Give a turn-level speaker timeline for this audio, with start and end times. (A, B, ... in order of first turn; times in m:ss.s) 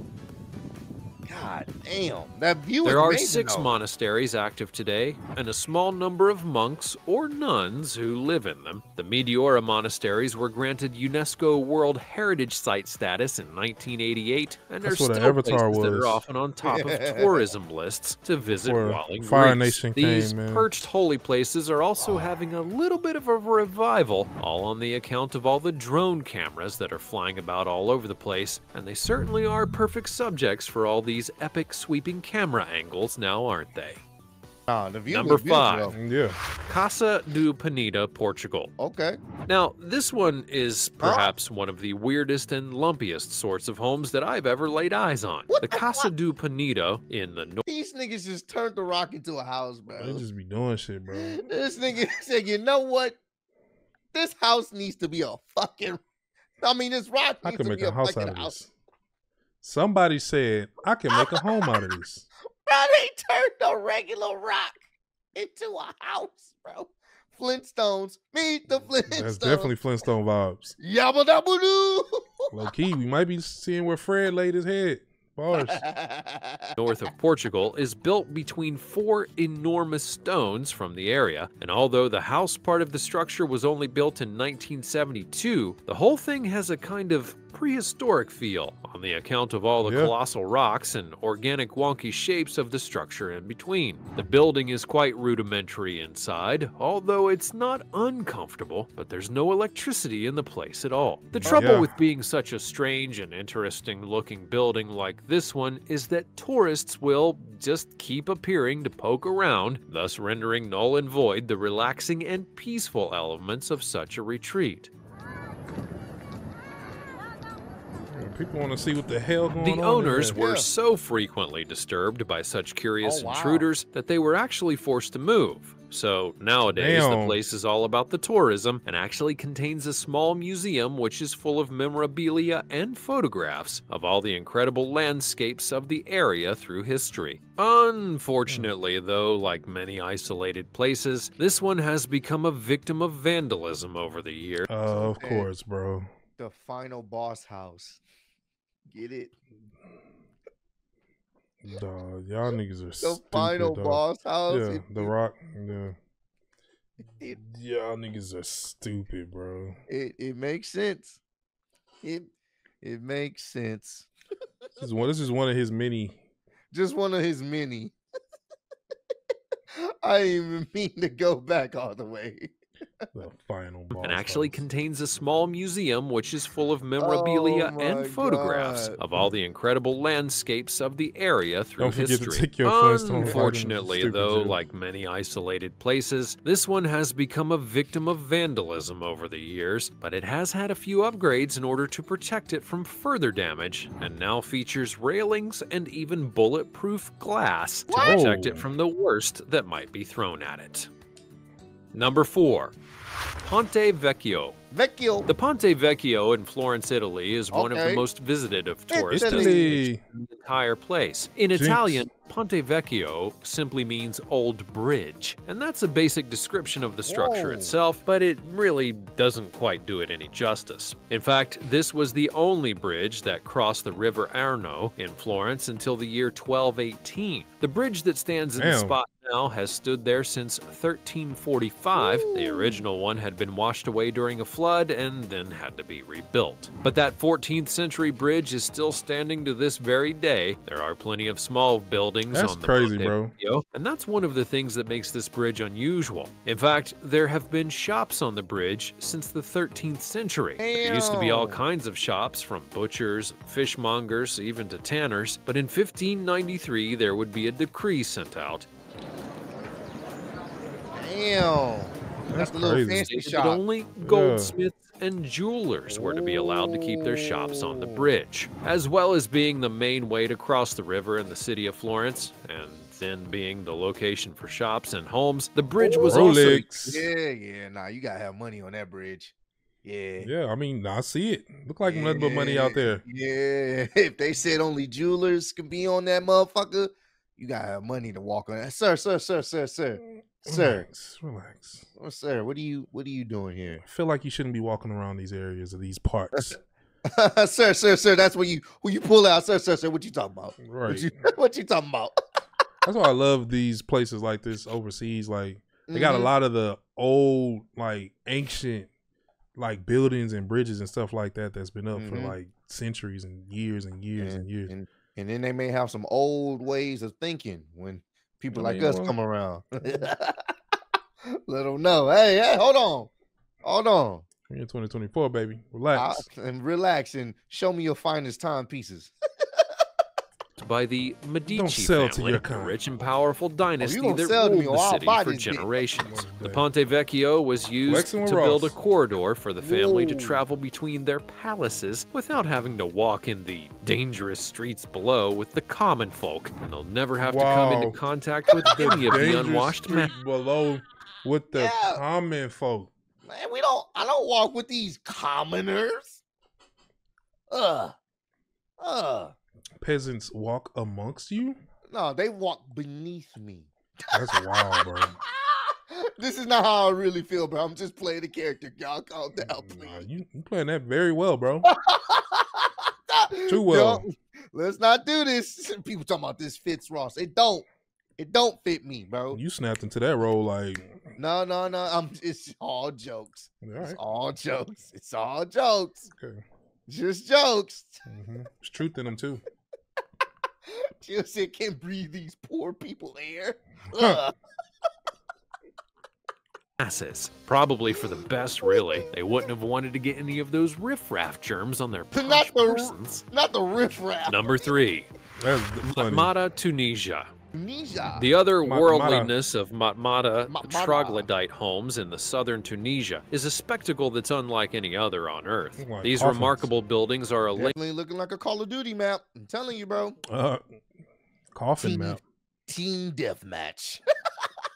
0:01.3-0:03.8 A
0:02.8-0:34.0 B
0:14.8-0:16.2 C
0:16.6-0:17.4 A
0:18.6-0:20.7 C
0:34.7-0:36.0 A
0:35.1-0:35.9 B
0:35.9-0:36.4 C
0:36.7-0:38.7 B
0:38.8-0:39.2 A
0:39.5-0:47.6 B
0:41.0-0:41.3 A
0:45.5-0:46.1 A
0:47.6-0:50.2 A
0:49.9-0:51.4 C
0:51.1-0:53.2 A
0:54.1-0:56.0 A
0:56.6-0:58.6 A
0:57.4-0:58.7 C
0:59.6-1:02.3 C
1:01.1-1:01.9 A
1:02.6-1:04.8 A
1:05.3-1:09.7 A
1:09.0-1:10.8 C
1:10.8-1:12.5 A
1:12.5-1:15.8 C
1:15.5-1:16.8 A
1:16.8-1:54.9 B
1:29.8-1:30.1 C
1:41.4-1:41.9 C
1:58.1-2:00.4 C
1:59.6-2:24.7 B
2:00.3-2:00.7 A
2:03.0-2:03.7 A
2:06.7-2:07.4 C
2:24.7-2:26.1 C
2:24.9-2:25.5 A
2:26.4-2:28.0 A
2:28.9-2:29.3 A
2:31.6-2:36.0 C
2:33.0-2:35.1 A
2:37.3-2:39.8 C
2:39.9-2:41.2 A
2:42.0-2:42.3 A
2:42.8-2:44.1 A
2:44.8-2:46.2 C
2:46.7-2:47.9 A
2:49.7-2:52.5 A
2:53.1-2:54.6 C
2:53.9-3:20.9 B
2:57.0-2:59.0 A
3:01.8-3:04.6 C
3:17.9-3:18.2 A
3:18.0-3:18.6 C
3:21.9-3:22.7 B
3:23.4-3:24.6 B
3:24.7-3:25.3 A
3:25.3-4:18.7 B
3:27.5-3:28.0 A
3:28.9-3:29.7 A
3:29.1-3:30.0 C
3:31.5-3:32.0 C
3:37.0-3:37.8 A
3:48.6-3:49.0 C
3:52.0-3:52.8 A
4:02.3-4:03.3 C
4:10.6-4:11.6 A
4:21.0-4:23.6 A
4:22.3-4:23.0 C
4:23.1-4:36.7 B
4:24.0-4:24.5 C
4:25.9-4:28.1 A
4:35.8-4:40.3 A
4:36.0-4:37.0 C
4:40.2-4:43.0 C
4:41.8-4:50.8 A
4:50.0-4:51.8 C
4:52.0-4:53.8 A
4:53.8-4:56.6 C
4:56.3-5:02.2 A
5:00.6-5:01.2 C
5:02.8-5:08.9 C
5:05.9-5:06.3 A
5:09.6-5:14.7 C
5:12.0-5:12.4 A
5:14.2-5:20.6 A
5:18.5-5:19.1 C
5:21.2-5:23.1 A
5:23.6-5:24.2 A
5:24.5-5:26.2 C
5:25.9-5:29.8 A
5:30.6-5:50.1 B
5:31.4-5:32.8 C
5:33.8-5:35.7 A
5:36.0-5:36.6 C
5:37.8-5:38.7 C
5:39.6-5:40.4 A
5:47.2-5:48.0 C
5:48.5-5:49.0 A
5:48.6-5:52.9 C
5:51.5-5:52.0 A
5:53.2-5:56.2 A
5:57.5-5:58.0 A
5:58.8-5:59.3 A
5:59.8-6:01.6 C
6:01.9-6:10.0 A
6:04.1-6:05.2 C
6:09.4-6:11.7 C
6:11.6-6:17.6 A
6:13.5-6:14.0 C
6:18.2-6:19.4 A
6:19.3-6:21.1 C
6:21.2-6:26.1 A
6:23.6-6:24.0 C
6:26.1-6:26.4 C
6:26.9-6:28.0 A
6:28.0-6:29.4 C
6:30.7-6:34.3 A
6:33.9-6:34.2 C
6:36.8-6:43.2 B
6:38.2-6:39.0 A
6:42.1-6:44.7 A
6:44.3-6:45.1 B
6:45.4-6:46.3 C
6:45.9-6:47.3 B
6:47.5-6:48.3 A
6:48.2-6:57.8 B
6:48.6-6:49.3 C
6:50.5-6:51.3 A
6:55.8-6:56.7 C
6:57.5-7:00.2 A
7:00.3-7:00.6 C
7:01.5-7:02.2 C
7:01.8-7:04.0 A